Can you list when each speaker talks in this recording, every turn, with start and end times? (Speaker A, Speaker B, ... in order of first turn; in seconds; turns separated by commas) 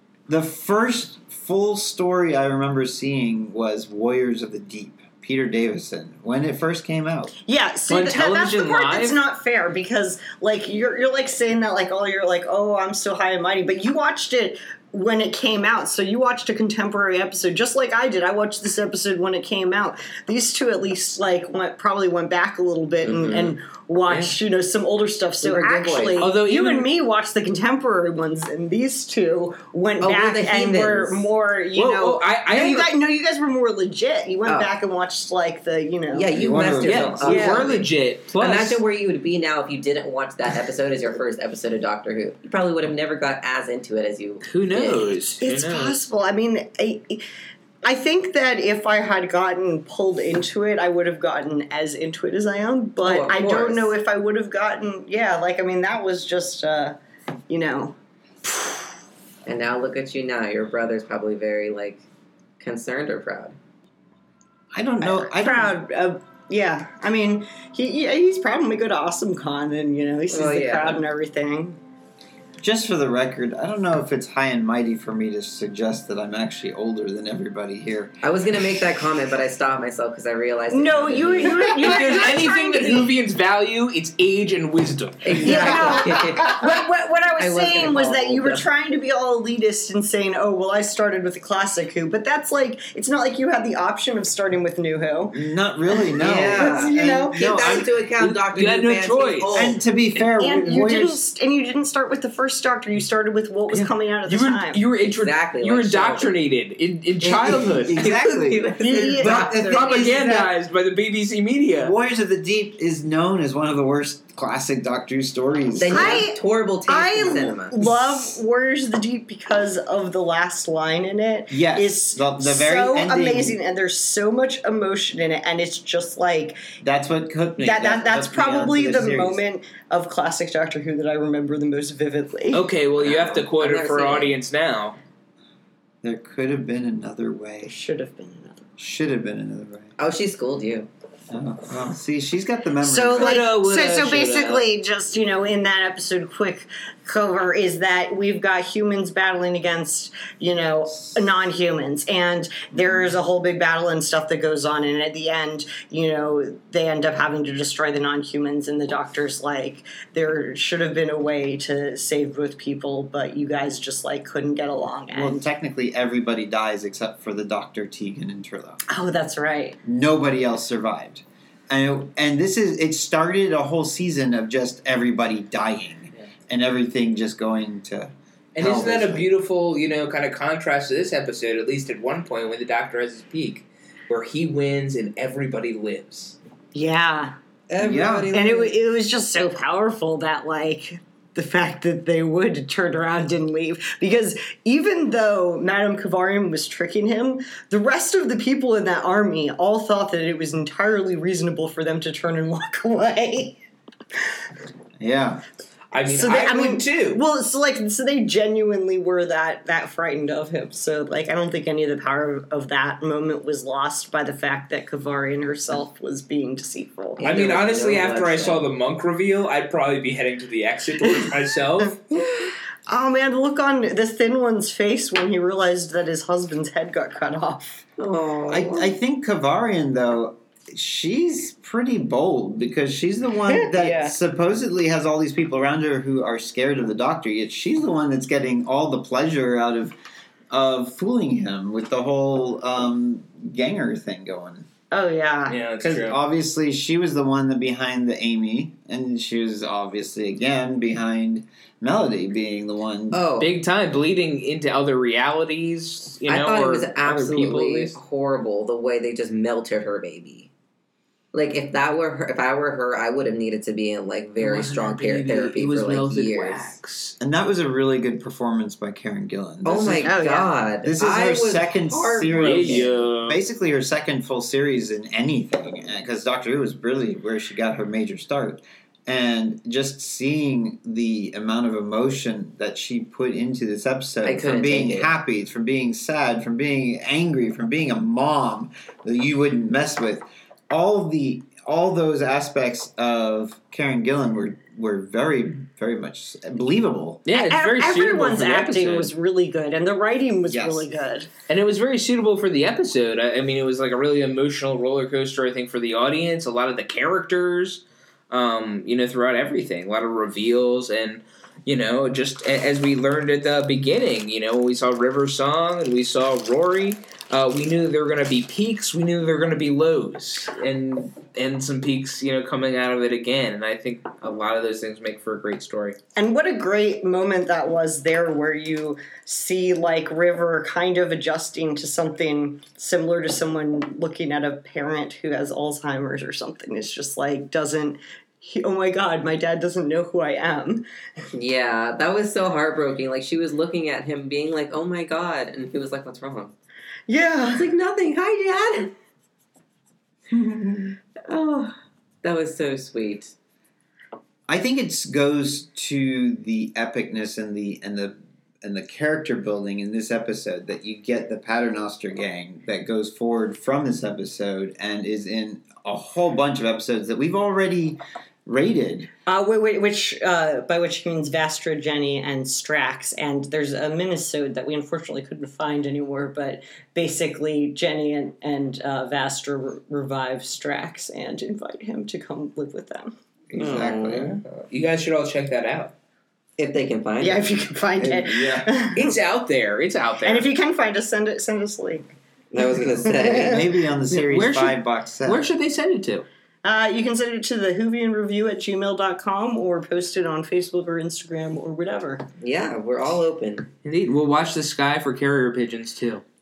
Speaker A: 0.3-7.3, Speaker B: 7.5-36.3, Speaker C: 7.9-9.2, Speaker D: 23.0-23.5, Speaker D: 25.4-26.2, Speaker C: 26.2-26.9, Speaker D: 30.0-31.3, Speaker C: 31.7-32.9, Speaker D: 34.5-34.7, Speaker D: 36.1-37.9, Speaker A: 36.3-37.7, Speaker C: 36.8-38.8, Speaker B: 37.2-37.7, Speaker D: 38.4-45.2, Speaker C: 44.5-46.0, Speaker B: 45.4-47.2, Speaker B: 47.8-57.0, Speaker D: 53.0-53.9, Speaker B: 57.5-58.0, Speaker D: 59.5-62.0, Speaker D: 62.6-63.5, Speaker A: 64.7-65.8, Speaker B: 65.0-71.8, Speaker D: 70.3-71.0, Speaker A: 72.6-78.2, Speaker D: 78.2-81.6, Speaker B: 80.7-83.1, Speaker C: 81.5-86.0, Speaker D: 85.2-86.7, Speaker B: 85.4-95.4, Speaker D: 87.4-88.7, Speaker A: 95.3-97.9, Speaker B: 96.1-97.8, Speaker D: 96.2-99.8, Speaker C: 98.2-99.7, Speaker A: 99.5-101.2, Speaker B: 100.4-104.8, Speaker C: 103.7-108.1, Speaker D: 105.0-106.3, Speaker A: 107.2-110.5, Speaker D: 107.9-109.8, Speaker B: 108.8-110.1, Speaker C: 109.7-111.9, Speaker A: 111.8-116.3, Speaker D: 115.8-117.8, Speaker B: 115.9-126.6, Speaker A: 117.8-118.3, Speaker A: 121.5-123.6, Speaker A: 126.8-129.4, Speaker B: 127.6-132.6, Speaker C: 132.5-135.0, Speaker D: 133.0-134.3, Speaker A: 136.0-137.7, Speaker B: 137.7-138.7, Speaker A: 138.8-139.9, Speaker D: 140.0-140.9, Speaker A: 141.3-143.4, Speaker B: 142.8-165.4, Speaker C: 143.1-144.6, Speaker A: 152.7-153.1, Speaker A: 165.1-168.8, Speaker B: 168.9-169.8, Speaker A: 169.8-179.3, Speaker C: 178.5-186.4, Speaker B: 186.7-187.3, Speaker D: 187.7-188.7, Speaker A: 187.8-188.3, Speaker B: 188.3-203.6, Speaker A: 205.0-205.4, Speaker C: 205.9-207.2, Speaker B: 206.1-217.2, Speaker D: 217.2-218.6, Speaker C: 217.2-222.0, Speaker B: 222.1-227.8, Speaker D: 228.0-228.9, Speaker A: 228.5-239.9, Speaker B: 233.5-234.1, Speaker A: 240.5-244.7, Speaker B: 244.9-245.6, Speaker C: 245.5-246.2, Speaker A: 245.8-253.2, Speaker D: 253.1-253.5, Speaker C: 253.4-258.0, Speaker D: 256.2-260.5, Speaker D: 261.3-266.7, Speaker C: 264.4-267.1, Speaker A: 267.2-270.1, Speaker D: 269.6-272.9, Speaker B: 270.0-270.5, Speaker A: 270.8-297.2, Speaker C: 272.3-273.4, Speaker D: 284.2-285.1, Speaker C: 297.2-299.1, Speaker B: 297.3-301.3, Speaker A: 300.5-300.9, Speaker C: 301.5-326.0, Speaker B: 326.1-340.8, Speaker D: 341.3-346.5, Speaker B: 347.1-347.7, Speaker D: 347.5-348.9, Speaker A: 350.3-350.9, Speaker D: 351.3-353.3, Speaker A: 354.5-369.1, Speaker B: 369.3-383.1, Speaker A: 383.5-384.4, Speaker D: 383.5-384.4, Speaker C: 384.5-385.9, Speaker D: 386.6-387.4, Speaker B: 387.2-389.1, Speaker A: 388.0-388.7, Speaker C: 388.9-390.5, Speaker B: 390.2-392.0, Speaker D: 392.5-393.6, Speaker B: 392.8-393.6, Speaker A: 393.2-395.5, Speaker C: 394.1-396.2, Speaker B: 396.6-402.2, Speaker D: 402.4-403.7, Speaker C: 403.8-406.2